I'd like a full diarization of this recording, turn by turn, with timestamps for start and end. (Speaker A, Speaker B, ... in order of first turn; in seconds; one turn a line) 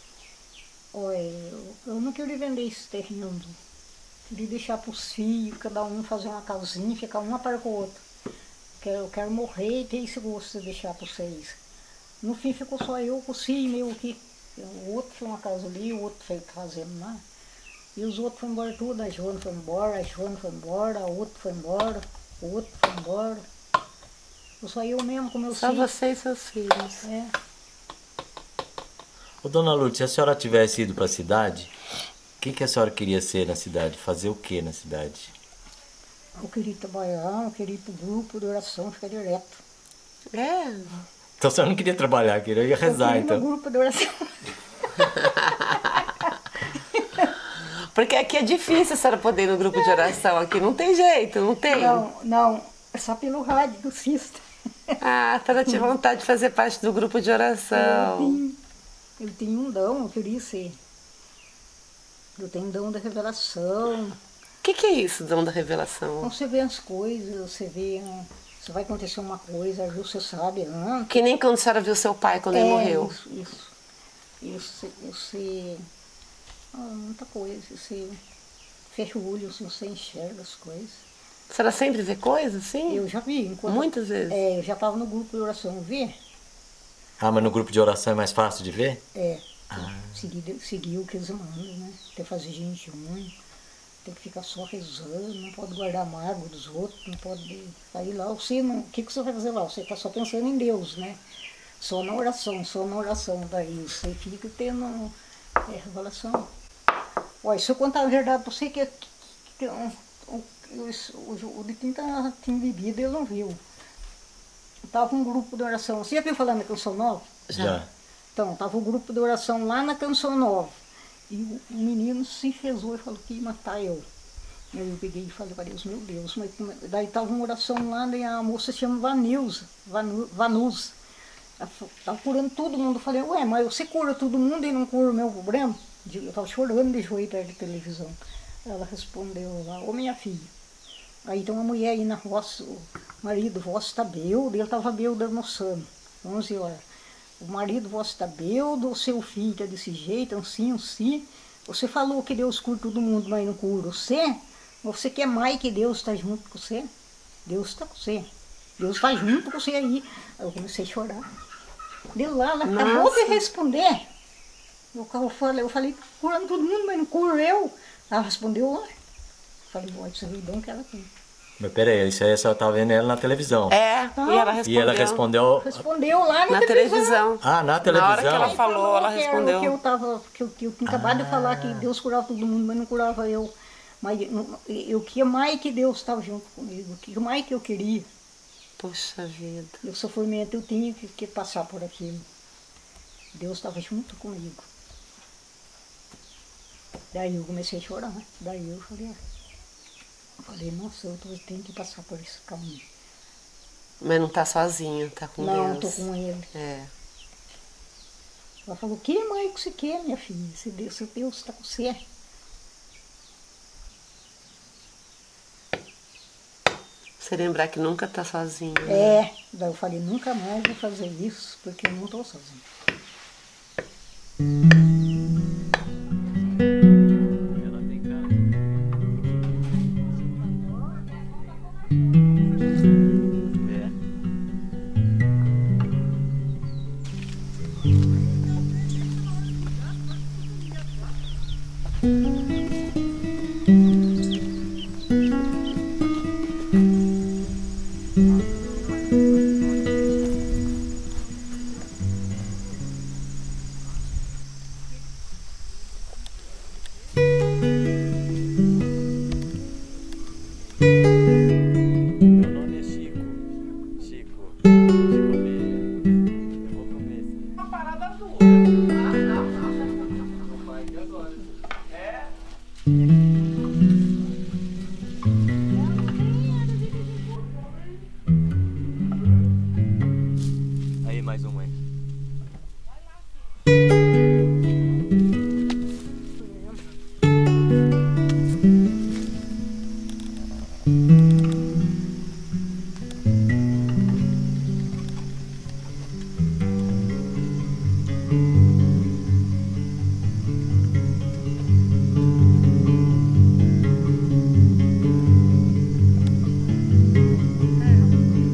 Speaker A: 0.9-3.6
Speaker A: 4.3-8.0
Speaker A: 8.8-11.6
Speaker A: 12.2-17.2
Speaker A: 17.9-23.4
Speaker A: 24.6-25.9
Speaker B: 25.5-27.1
Speaker A: 27.0-27.3
Speaker C: 29.4-31.7
Speaker C: 32.4-35.3
Speaker A: 36.4-39.6
Speaker B: 40.3-41.0
Speaker C: 41.4-43.4
Speaker A: 42.8-45.2
Speaker A: 46.9-47.3
Speaker B: 47.6-52.0
Speaker A: 51.7-55.0
Speaker B: 55.0-58.4
Speaker A: 57.7-58.6
Speaker A: 59.2-60.8
Speaker A: 62.4-64.2
Speaker B: 64.6-66.3
Speaker A: 66.2-71.1
Speaker B: 71.1-73.1
Speaker A: 72.5-73.7
Speaker A: 74.4-75.9
Speaker A: 76.7-78.2
Speaker A: 78.9-81.0
Speaker B: 81.5-83.0
Speaker A: 82.9-86.1
Speaker B: 83.7-84.4
Speaker C: 87.2-89.0
Speaker A: 89.1-93.3
Speaker C: 89.7-90.1
Speaker A: 94.0-101.2
Speaker A: 101.8-105.1
Speaker A: 105.7-106.5
Speaker A: 107.4-113.6
Speaker A: 114.9-117.4
Speaker B: 117.5-117.8
Speaker C: 117.5-117.9
Speaker A: 118.3-120.7
Speaker A: 121.3-124.0
Speaker A: 124.7-131.0
Speaker A: 131.6-140.5
Speaker A: 141.2-146.8
Speaker A: 147.4-156.9
Speaker A: 157.4-161.2
Speaker A: 162.1-164.1
Speaker B: 162.7-163.4
Speaker A: 164.9-168.9
Speaker A: 169.7-171.1
Speaker C: 171.6-173.8
Speaker B: 173.7-175.2
Speaker A: 174.2-174.6
Speaker C: 174.6-175.8
Speaker A: 175.6-177.2
Speaker B: 176.5-179.8
Speaker C: 177.4-178.6
Speaker A: 178.1-188.1
Speaker C: 180.9-181.7
Speaker B: 188.8-189.8
Speaker A: 189.8-192.3
Speaker A: 193.3-194.7
Speaker A: 197.1-199.2
Speaker A: 200.4-202.8
Speaker B: 204.0-206.9
Speaker A: 205.4-206.5
Speaker A: 208.7-212.0
Speaker B: 217.2-219.2
Speaker A: 218.9-222.6
Speaker C: 227.6-228.6
Speaker C: 233.6-233.9
Speaker C: 262.2-263.4
Speaker C: 263.9-265.9
Speaker C: 266.6-267.6
Speaker A: 275.7-277.2
Speaker C: 281.0-281.8
Speaker A: 286.4-286.8
Speaker A: 307.9-308.1